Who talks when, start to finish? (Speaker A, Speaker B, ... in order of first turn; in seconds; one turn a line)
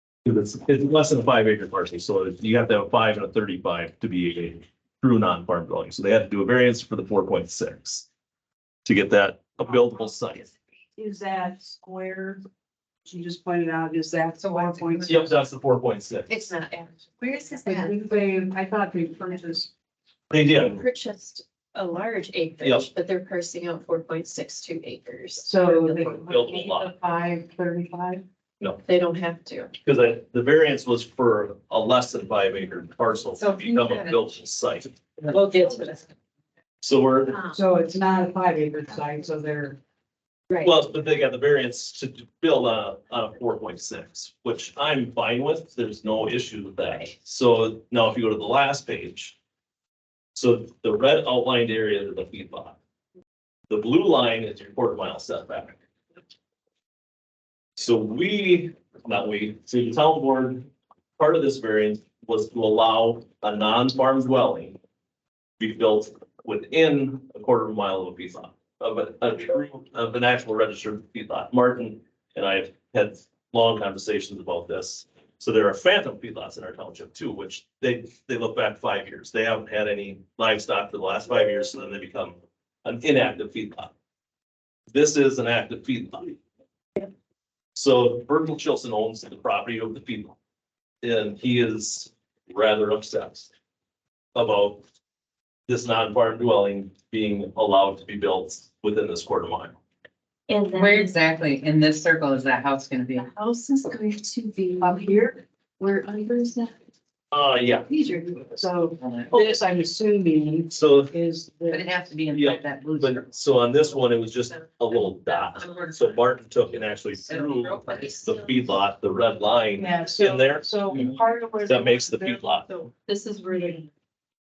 Speaker A: 0.2-8.1
Speaker A: 8.8-10.5
Speaker B: 11.0-12.4
Speaker B: 13.1-15.4
Speaker C: 14.4-15.3
Speaker A: 15.1-16.5
Speaker D: 16.3-17.9
Speaker B: 17.6-19.7
Speaker A: 20.3-20.8
Speaker D: 20.6-26.2
Speaker A: 22.6-22.9
Speaker B: 25.4-28.2
Speaker A: 26.0-26.9
Speaker D: 28.9-29.7
Speaker A: 29.8-34.9
Speaker C: 33.4-34.3
Speaker C: 35.2-36.0
Speaker B: 35.3-36.0
Speaker A: 36.8-37.4
Speaker D: 37.3-37.6
Speaker B: 37.5-39.8
Speaker A: 40.6-49.4
Speaker A: 50.4-52.8
Speaker A: 53.7-55.8
Speaker A: 57.8-64.8
Speaker A: 65.6-83.9
Speaker A: 84.9-86.4
Speaker A: 87.8-90.4
Speaker A: 91.0-93.5
Speaker A: 94.3-94.8
Speaker A: 95.7-99.7
Speaker D: 100.5-101.2
Speaker C: 100.7-103.3
Speaker D: 103.2-106.8
Speaker B: 104.8-105.4
Speaker A: 107.3-107.9
Speaker D: 107.8-108.6
Speaker B: 108.6-111.9
Speaker C: 109.0-109.5
Speaker A: 110.7-111.1
Speaker C: 111.7-113.3
Speaker A: 112.3-122.7
Speaker D: 115.3-116.2
Speaker C: 115.6-116.0
Speaker C: 117.2-118.3
Speaker D: 117.8-118.7
Speaker B: 119.8-122.4
Speaker D: 122.7-123.9